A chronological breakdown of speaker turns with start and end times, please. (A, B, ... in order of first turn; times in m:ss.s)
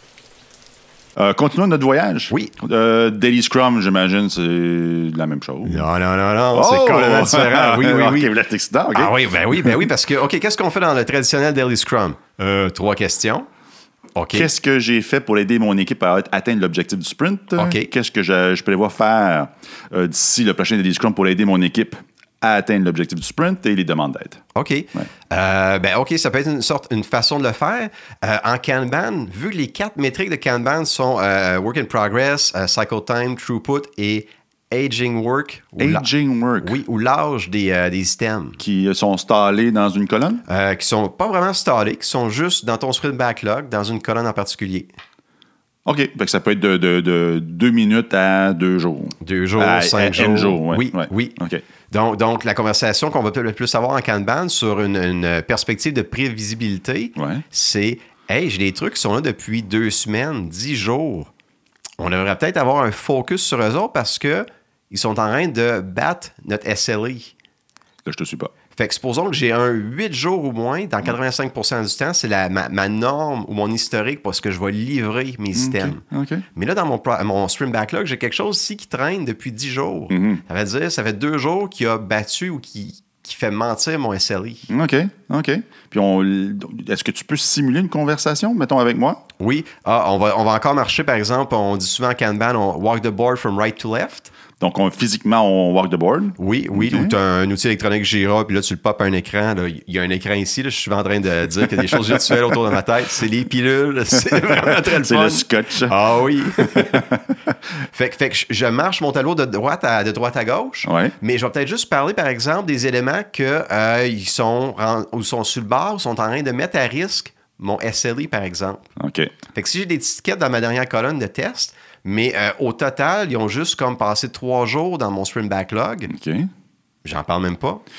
0:01.2-0:05.9 A
0:05.6-0:08.3 B
0:06.5-0:09.8 A
0:08.9-0:13.5 B
0:14.1-0:14.5 B
0:14.3-0:24.4 A
0:17.6-0:17.9 B
0:24.5-0:36.1 B
0:35.8-0:36.8 A
0:36.6-0:38.6 B
0:38.6-0:40.4 A
0:40.5-0:44.9 B
0:45.8-0:51.6 A
0:49.2-0:51.4 B
0:51.9-1:01.3 B
0:57.2-0:57.4 A
1:02.0-1:07.3 B
1:08.0-1:08.5 A
1:08.7-1:16.0 B
1:15.5-1:16.4 A
1:16.5-1:24.7 B
1:20.1-1:20.4 A
1:24.7-1:29.2 A
1:29.4-1:34.3 B
1:34.6-1:37.2 A
1:36.4-1:47.0 B
1:44.3-1:46.0 A
1:46.6-1:47.2 A
1:47.9-1:58.9 B
1:50.8-1:51.1 A
1:59.0-1:59.3 A
1:59.5-2:06.1 B
2:06.1-2:06.5 A
2:07.0-2:07.8 B